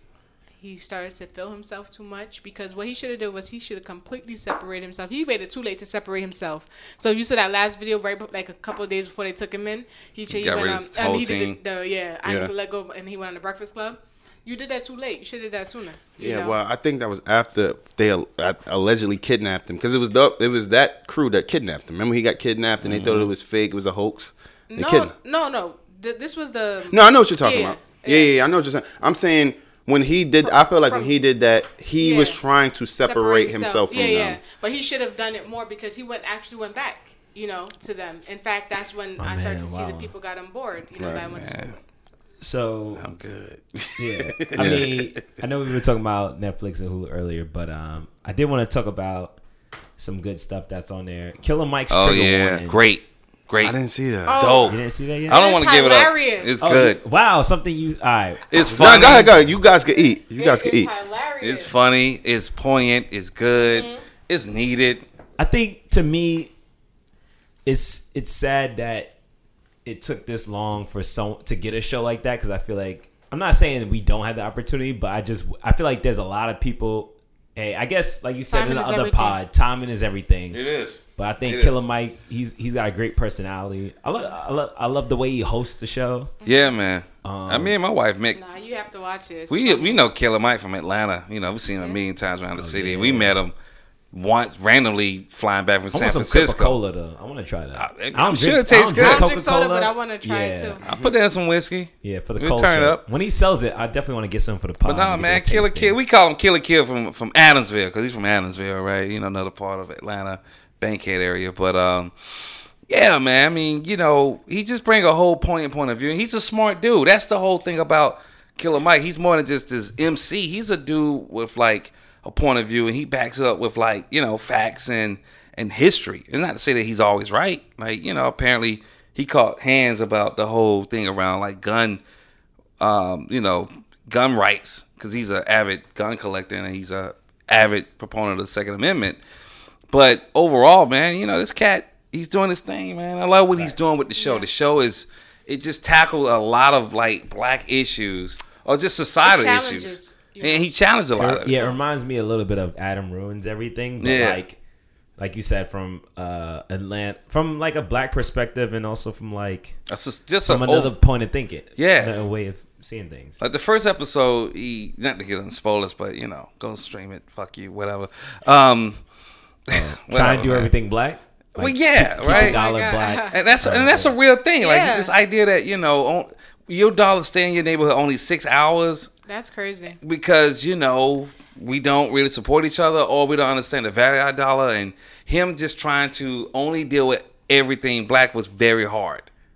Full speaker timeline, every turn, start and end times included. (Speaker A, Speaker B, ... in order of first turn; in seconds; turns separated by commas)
Speaker A: 0.6-16.6, Speaker B: 10.3-11.6, Speaker B: 12.2-12.5, Speaker C: 16.2-25.1, Speaker B: 22.8-23.3, Speaker A: 24.7-28.3, Speaker C: 26.9-34.4, Speaker A: 30.4-31.1, Speaker A: 32.0-32.4, Speaker A: 33.0-41.8, Speaker D: 39.2-40.1, Speaker C: 41.0-41.3, Speaker B: 41.3-41.7, Speaker D: 42.4-43.0, Speaker B: 43.0-45.1, Speaker D: 44.0-49.4, Speaker C: 44.5-44.9, Speaker D: 50.0-52.9, Speaker B: 51.9-53.8, Speaker C: 53.6-54.4, Speaker A: 54.2-54.8, Speaker B: 54.4-57.0, Speaker D: 54.6-55.5, Speaker A: 55.3-56.6, Speaker D: 56.6-59.5, Speaker B: 58.5-59.3, Speaker C: 58.7-60.9, Speaker A: 59.9-61.8, Speaker B: 61.4-65.0, Speaker A: 63.6-64.0, Speaker D: 65.4-66.5, Speaker D: 67.7-69.1, Speaker D: 69.8-80.6, Speaker A: 78.5-79.4, Speaker B: 80.5-81.8, Speaker D: 81.2-86.3, Speaker A: 86.4-86.8, Speaker B: 86.4-88.4, Speaker D: 87.2-87.8, Speaker A: 88.3-90.1, Speaker B: 89.5-93.5, Speaker D: 92.5-93.4, Speaker B: 94.1-96.8, Speaker D: 95.9-100.8, Speaker B: 97.7-99.3, Speaker A: 99.0-100.8, Speaker B: 100.8-103.0, Speaker D: 102.0-106.0, Speaker B: 104.8-132.0, Speaker B: 132.8-139.2, Speaker B: 139.9-151.6, Speaker A: 144.2-144.5, Speaker A: 149.2-150.7, Speaker D: 151.1-154.6, Speaker A: 151.5-151.8, Speaker B: 154.0-154.4, Speaker D: 155.2-159.7, Speaker B: 159.9-160.9, Speaker D: 160.4-163.4, Speaker B: 161.8-162.2, Speaker B: 163.4-169.0, Speaker D: 169.7-174.1, Speaker B: 169.7-170.7, Speaker B: 171.6-172.6, Speaker A: 172.2-173.4, Speaker B: 173.3-179.1, Speaker A: 174.6-175.1, Speaker A: 179.2-180.0, Speaker B: 179.8-189.3